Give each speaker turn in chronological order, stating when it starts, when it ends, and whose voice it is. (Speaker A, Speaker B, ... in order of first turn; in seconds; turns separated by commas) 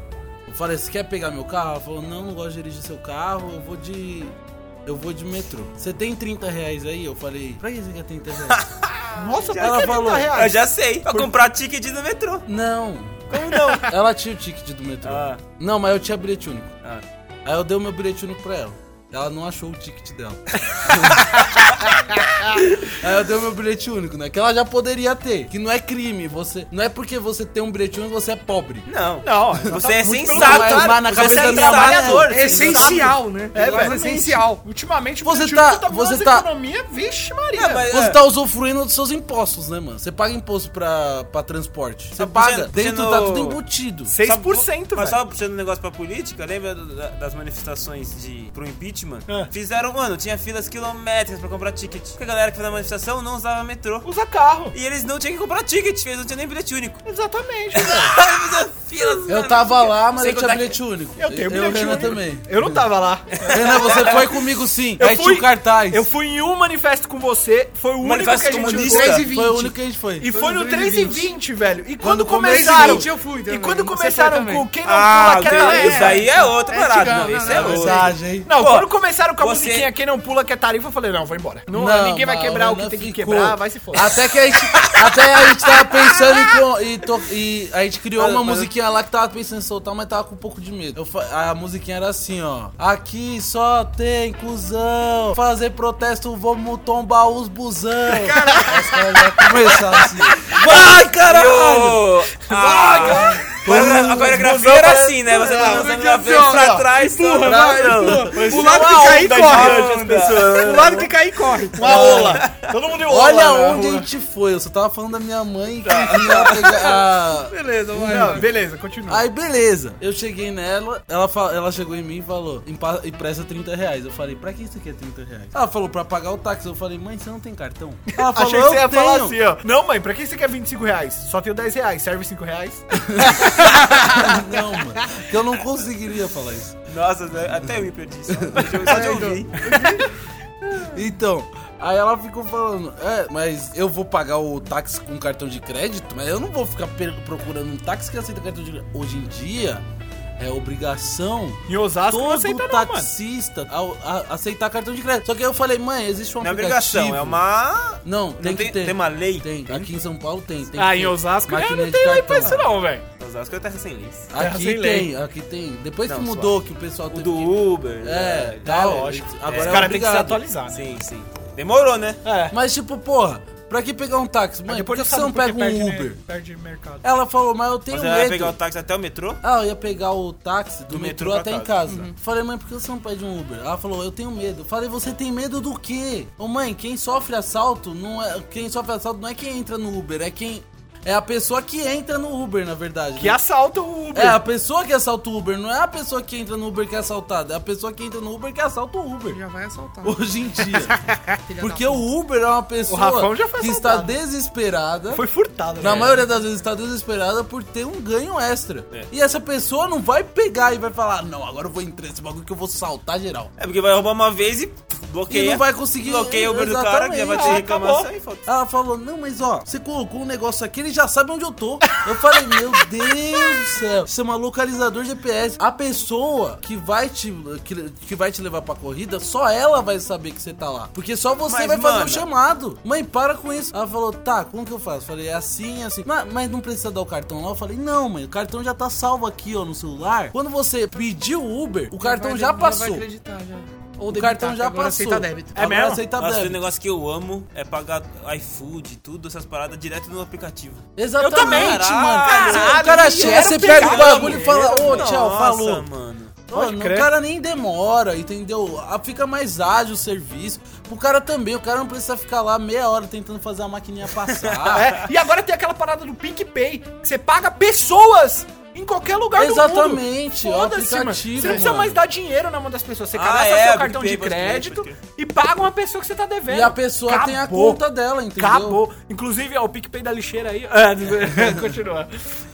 Speaker A: 0.5-4.3, Speaker A: 4.8-8.6, Speaker B: 8.5-12.4, Speaker C: 9.1-11.3, Speaker A: 9.6-10.3, Speaker A: 12.4-16.8, Speaker B: 13.3-13.9, Speaker C: 13.5-13.8, Speaker B: 15.0-15.4, Speaker A: 17.4-21.2, Speaker B: 21.3-21.8, Speaker A: 22.8-28.9, Speaker B: 28.9-34.0, Speaker C: 29.2-37.9, Speaker A: 30.3-33.0, Speaker D: 32.3-34.6, Speaker A: 35.2-36.5, Speaker B: 37.5-38.2, Speaker A: 37.9-44.1, Speaker B: 42.1-43.6, Speaker C: 44.1-45.2, Speaker B: 44.2-54.1, Speaker C: 54.0-54.8, Speaker B: 54.7-57.0, Speaker C: 57.0-58.1, Speaker B: 57.7-60.8, Speaker A: 59.3-62.6, Speaker C: 61.2-64.3, Speaker B: 63.4-64.2, Speaker A: 63.4-66.0, Speaker C: 65.0-69.3, Speaker B: 68.0-69.3, Speaker D: 68.5-71.3, Speaker A: 69.2-70.3, Speaker C: 70.2-76.3, Speaker A: 72.0-73.1, Speaker D: 72.3-74.7, Speaker B: 74.8-79.9, Speaker D: 75.4-78.1, Speaker A: 77.5-78.5, Speaker C: 77.6-84.1, Speaker A: 81.7-102.0, Speaker C: 85.7-86.3, Speaker B: 88.2-88.7, Speaker C: 98.2-100.3, Speaker D: 98.7-99.3, Speaker B: 100.3-112.7, Speaker C: 102.4-105.9, Speaker D: 102.9-103.3, Speaker A: 103.5-104.5, Speaker D: 104.4-112.3, Speaker C: 106.5-106.8, Speaker A: 107.4-109.3, Speaker C: 108.3-111.1, Speaker C: 111.6-114.1, Speaker A: 111.8-112.4, Speaker A: 113.0-118.5, Speaker B: 115.8-116.8, Speaker D: 116.1-118.5, Speaker C: 118.0-119.3, Speaker A: 119.1-129.4, Speaker C: 128.1-135.2, Speaker A: 133.0-136.8, Speaker B: 136.9-139.8, Speaker A: 138.4-138.7, Speaker D: 138.6-140.1, Speaker C: 139.6-140.1, Speaker A: 140.8-149.8, Speaker A: 150.4-157.4, Speaker C: 151.7-153.1, Speaker B: 156.4-159.9, Speaker A: 158.0-162.6, Speaker C: 160.7-163.0, Speaker B: 163.2-164.3, Speaker A: 164.3-170.4, Speaker C: 164.3-165.1, Speaker B: 166.1-166.6, Speaker B: 167.1-170.0, Speaker C: 168.7-171.0, Speaker B: 170.7-172.2, Speaker C: 172.2-172.5, Speaker A: 172.5-176.2, Speaker C: 174.7-177.0, Speaker A: 177.0-178.6, Speaker B: 177.9-179.4, Speaker A: 179.4-193.4, Speaker B: 180.9-182.0, Speaker C: 193.2-194.4, Speaker A: 194.1-199.4, Speaker D: 199.3-202.1, Speaker A: 200.0-201.0, Speaker A: 201.6-205.2, Speaker C: 202.9-204.2, Speaker C: 205.1-206.3, Speaker A: 205.8-213.5, Speaker B: 205.8-206.2, Speaker B: 213.6-218.5, Speaker A: 215.3-217.7, Speaker C: 217.3-218.1, Speaker A: 218.4-243.1, Speaker B: 231.5-232.3, Speaker D: 241.9-245.7, Speaker A: 244.1-246.6, Speaker C: 245.5-246.1, Speaker B: 246.2-256.4, Speaker A: 250.9-255.8, Speaker C: 251.2-255.1, Speaker A: 256.5-264.9, Speaker C: 256.5-257.1, Speaker B: 264.2-265.0, Speaker C: 264.7-277.8, Speaker A: 269.4-272.0, Speaker B: 273.1-275.0, Speaker A: 276.5-278.8, Speaker C: 278.4-282.2, Speaker A: 281.3-281.6